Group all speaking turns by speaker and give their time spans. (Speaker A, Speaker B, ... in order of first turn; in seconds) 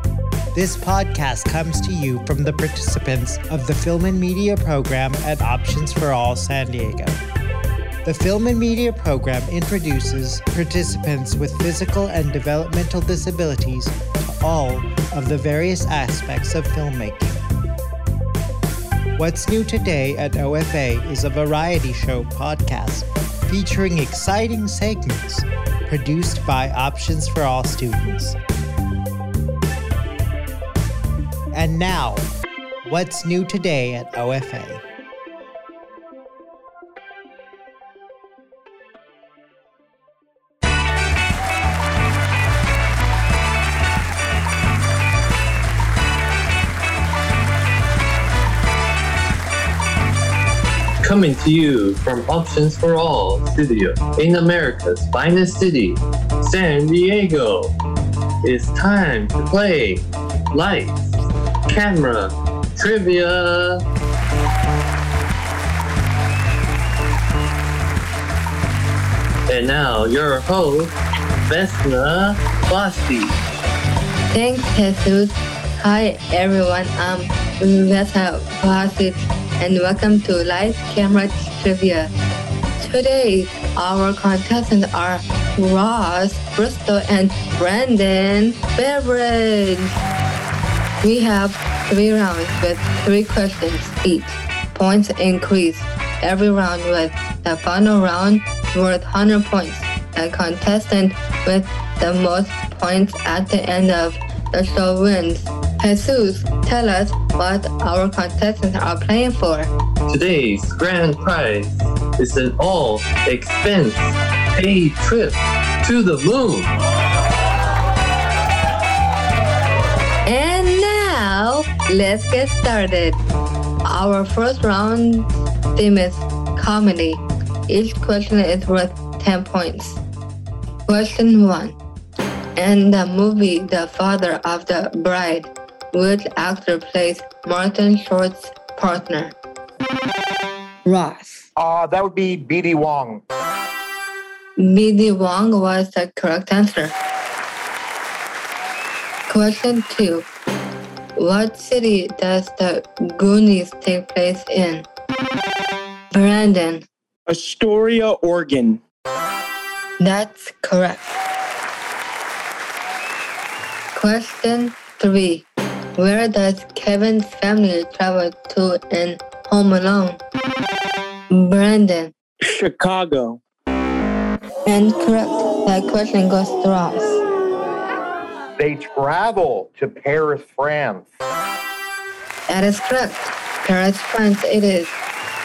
Speaker A: 0.5-7.2, 8.0-17.4, 19.1-28.4, 31.5-32.3, 32.8-34.8
Speaker B: 51.0-57.7, 58.4-61.1, 61.7-63.8, 69.5-70.9, 71.5-73.4, 110.1-116.7
Speaker C: 74.3-82.1, 82.8-90.0, 91.0-109.7, 120.2-123.2, 123.8-130.0, 130.9-131.8, 132.6-139.3, 140.8-141.4, 144.6-146.9, 149.3-150.3, 151.2-154.9, 156.1-156.8, 160.0-161.1, 163.9-170.2, 171.3-172.1, 174.7-177.2, 182.5-184.9
Speaker D: 141.6-143.2, 178.6-181.1
Speaker E: 157.3-158.8, 172.4-173.4